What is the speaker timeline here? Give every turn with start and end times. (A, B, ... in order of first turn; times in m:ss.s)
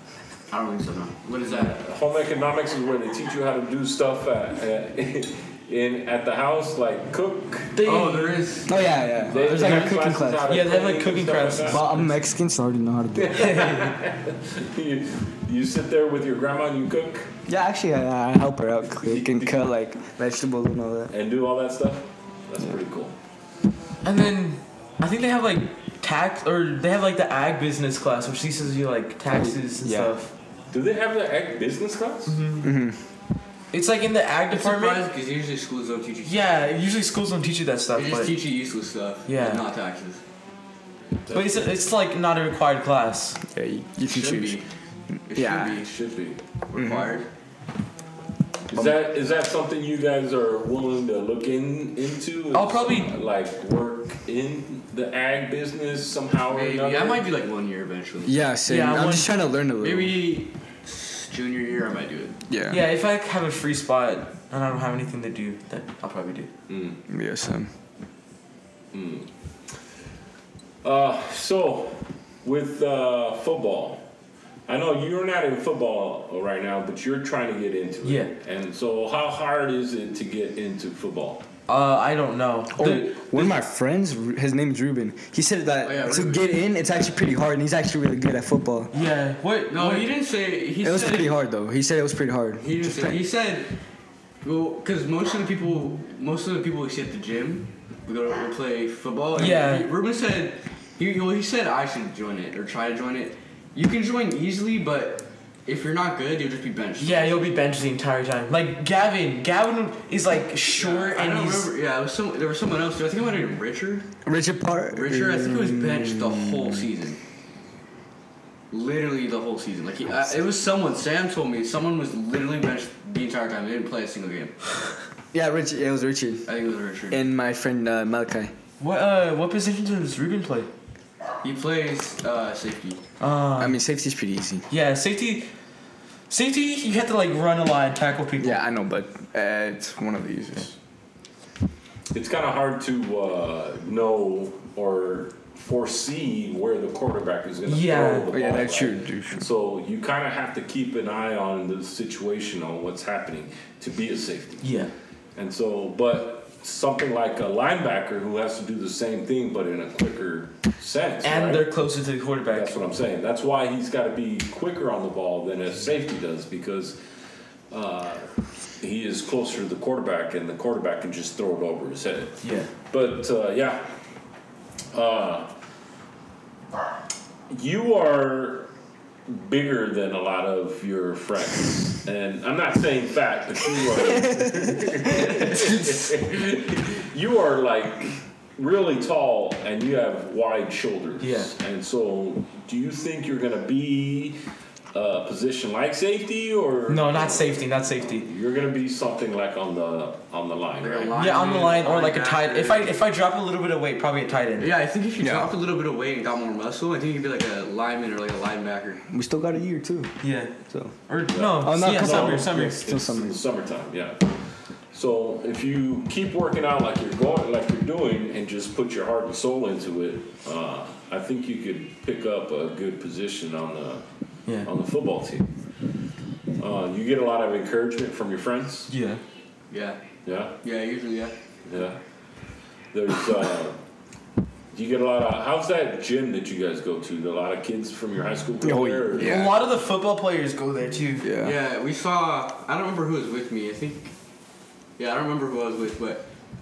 0:00.5-0:01.8 A
0:01.5-0:07.8 B
0:07.7-0:08.5 C
0:07.8-0:10.0 A
0:08.6-0:10.6 D
0:09.1-0:12.2 B
0:10.4-0:12.0 C
0:11.7-0:13.6 D
0:13.2-0:17.3 B
0:13.3-0:13.9 C
0:17.5-0:21.1 D
0:19.0-0:19.6 B
0:21.1-0:23.1 B
0:24.0-0:30.3 C
0:29.3-0:30.1 D
0:30.7-0:32.5 B
0:32.3-0:32.7 C
0:32.6-0:33.0 D
0:33.7-0:35.0 C
0:34.5-0:36.7 A
0:36.2-0:38.4 C
0:37.9-0:40.2 A
0:39.3-0:39.6 C
0:41.2-0:41.7 B
0:41.3-0:43.4 C
0:43.5-0:44.6 D
0:44.0-0:44.6 A
0:45.3-0:46.1 A
0:45.3-0:45.8 D
0:45.8-0:46.4 B
0:46.6-0:47.3 A
0:46.7-0:47.1 D
0:48.7-0:57.2 B
0:52.5-0:53.1 C
0:56.5-0:58.4 A
0:58.2-1:00.2 D
0:58.7-0:59.3 C
0:59.8-1:02.4 A
1:02.5-1:02.8 D
1:02.7-1:06.5 C
1:06.7-1:07.0 B
1:07.1-1:07.7 D
1:08.9-1:09.3 B
1:10.8-1:14.0 B
1:14.7-1:21.4 B
1:18.0-1:18.3 C
1:21.7-1:23.2 C
1:22.7-1:28.9 D
1:25.8-1:26.5 A
1:28.9-1:30.1 C
1:29.7-1:31.4 A
1:30.8-1:33.2 D
1:32.6-1:33.7 A
1:34.4-1:47.6 A
1:39.3-1:39.9 C
1:47.0-1:51.7 C
1:50.7-1:54.1 A
1:54.2-1:56.7 D
1:54.9-1:57.2 A
1:58.7-2:04.6 A
2:05.3-2:06.5 D
2:06.4-2:07.2 A
2:07.1-2:08.5 D
2:08.8-2:10.7 C
2:11.4-2:13.0 A
2:13.2-2:13.8 C
2:13.6-2:14.6 D
2:14.7-2:15.5 C
2:16.3-2:18.6 C
2:18.4-2:20.7 D
2:22.1-2:34.7 B
2:27.7-2:28.3 C
2:28.3-2:29.4 D
2:34.6-2:34.9 C
2:35.4-2:41.7 B
2:41.2-2:42.7 C
2:42.5-2:47.0 B
2:47.7-2:53.9 B
2:52.4-2:52.7 C
2:54.9-2:55.5 B
2:57.5-2:58.7 B
2:59.2-3:14.4 B
3:11.2-3:11.5 C
3:14.9-3:21.2 B
3:16.9-3:18.3 C
3:20.8-3:22.9 A
3:21.1-3:24.7 C
3:24.6-3:29.0 A
3:25.2-3:25.5 D
3:29.1-3:30.1 D
3:30.2-3:30.5 C
3:30.6-3:30.9 D
3:31.0-3:32.8 C
3:31.3-3:34.3 B
3:31.5-3:33.4 D
3:34.9-3:44.0 B
3:44.6-3:45.5 B
3:46.6-3:48.9 B
3:48.9-3:49.2 C
3:49.7-3:50.0 A
3:50.2-3:50.6 B
3:50.6-3:51.3 A
3:51.7-3:52.0 B
3:52.9-3:53.8 B
3:54.7-3:59.5 B
3:58.6-3:59.6 D
3:59.1-4:01.2 C
4:01.2-4:01.6 D
4:01.4-4:04.1 A
4:05.0-4:06.3 A